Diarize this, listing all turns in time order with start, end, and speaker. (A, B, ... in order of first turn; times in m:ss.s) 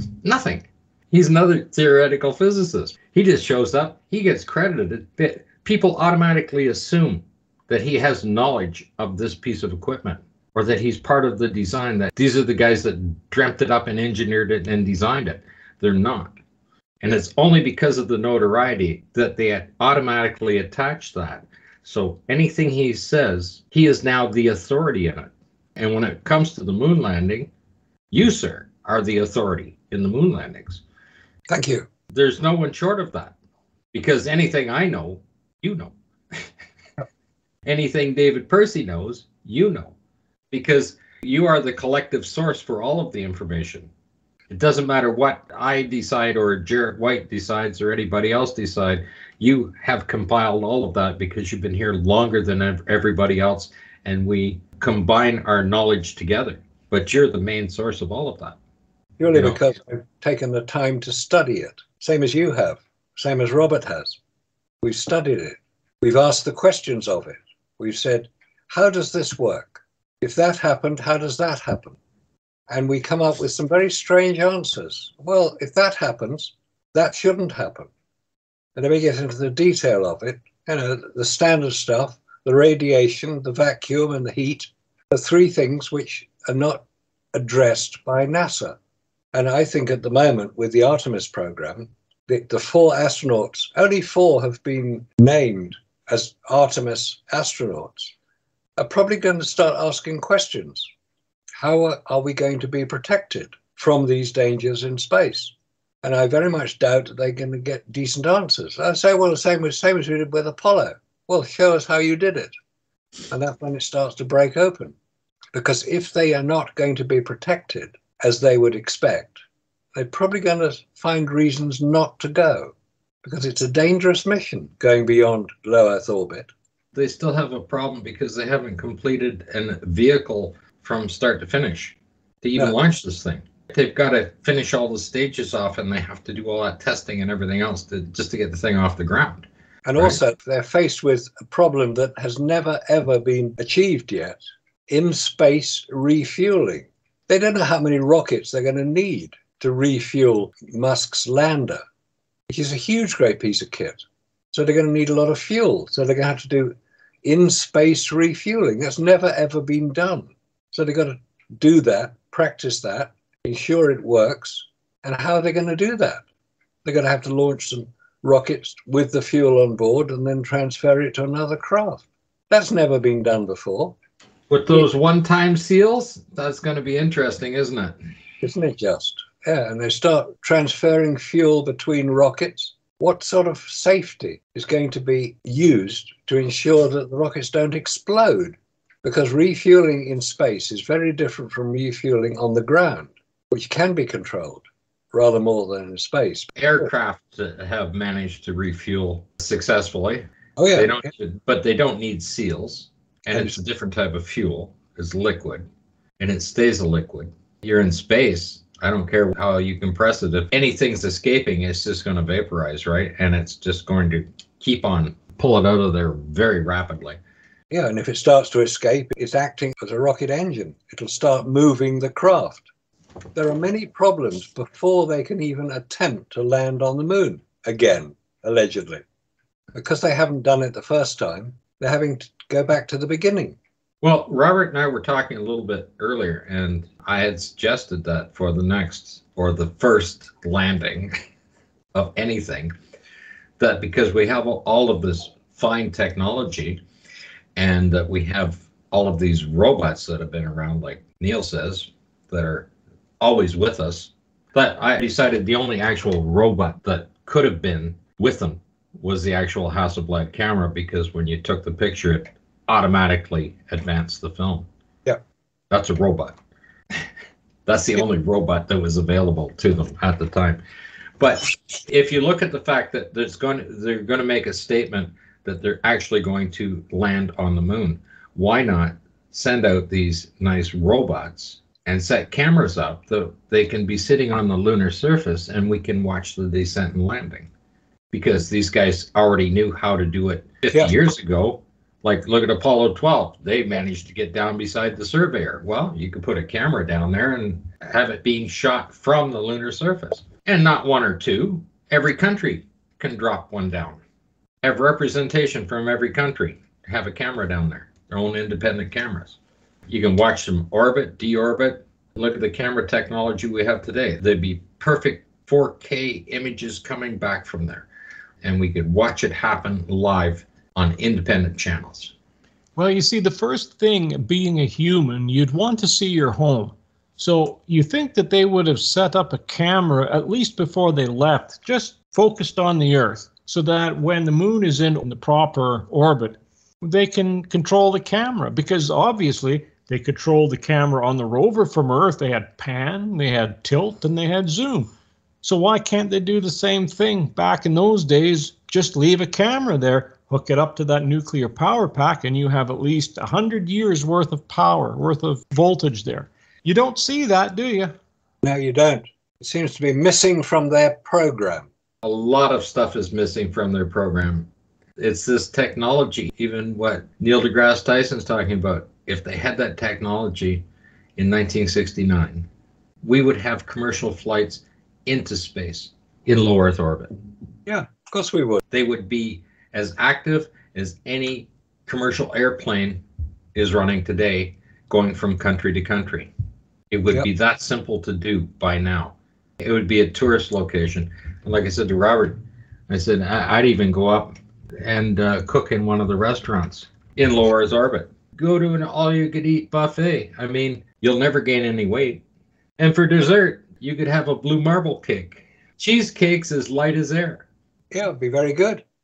0:00.2-0:16.4 A
0:17.0-0:27.5 A
0:28.1-0:30.8 A
0:31.5-0:31.9 B
0:32.1-0:33.3 A
0:33.9-0:36.5 A
0:37.6-0:39.9 A
0:40.5-0:43.9 A
0:44.5-0:58.6 A
0:59.2-1:04.2 B
0:59.3-0:59.6 A
1:04.8-1:12.0 B
1:12.7-1:17.9 B
1:18.8-1:28.8 B
1:29.3-1:38.1 B
1:38.8-1:40.9 B
1:41.6-1:52.5 B
1:53.3-1:55.0 B
1:55.5-1:59.4 B
2:00.0-2:02.7 B
2:03.2-2:06.5 B
2:06.9-2:20.2 A
2:19.8-2:31.8 B
2:32.5-2:46.2 B
2:46.8-2:54.0 B
2:54.5-2:58.0 A
2:58.4-3:16.5 B
3:16.6-3:25.7 A
3:20.6-3:21.0 B
3:26.2-3:37.2 A
3:37.7-3:42.6 B
3:43.4-3:49.0 B
3:49.7-3:53.6 B
3:54.0-4:01.1 A
4:01.9-4:02.7 A
4:03.6-4:06.8 A
4:07.6-4:12.7 A
4:13.2-4:24.7 A
4:25.7-4:26.4 A
4:27.7-4:30.6 A
4:31.2-4:47.5 A
4:48.1-5:04.0 A
5:04.6-5:09.4 A
5:09.9-5:17.9 A
5:18.4-5:22.1 A
5:22.8-5:44.9 C
5:45.4-5:57.9 C
5:58.4-6:01.7 B
6:02.0-6:10.6 A
6:11.2-6:12.5 A
6:13.0-6:17.1 A
6:17.7-6:18.6 B
6:18.7-6:23.0 A
6:23.6-6:26.3 A
6:26.9-6:32.4 A
6:32.9-6:42.2 A
6:42.8-6:47.4 A
6:47.9-6:48.8 B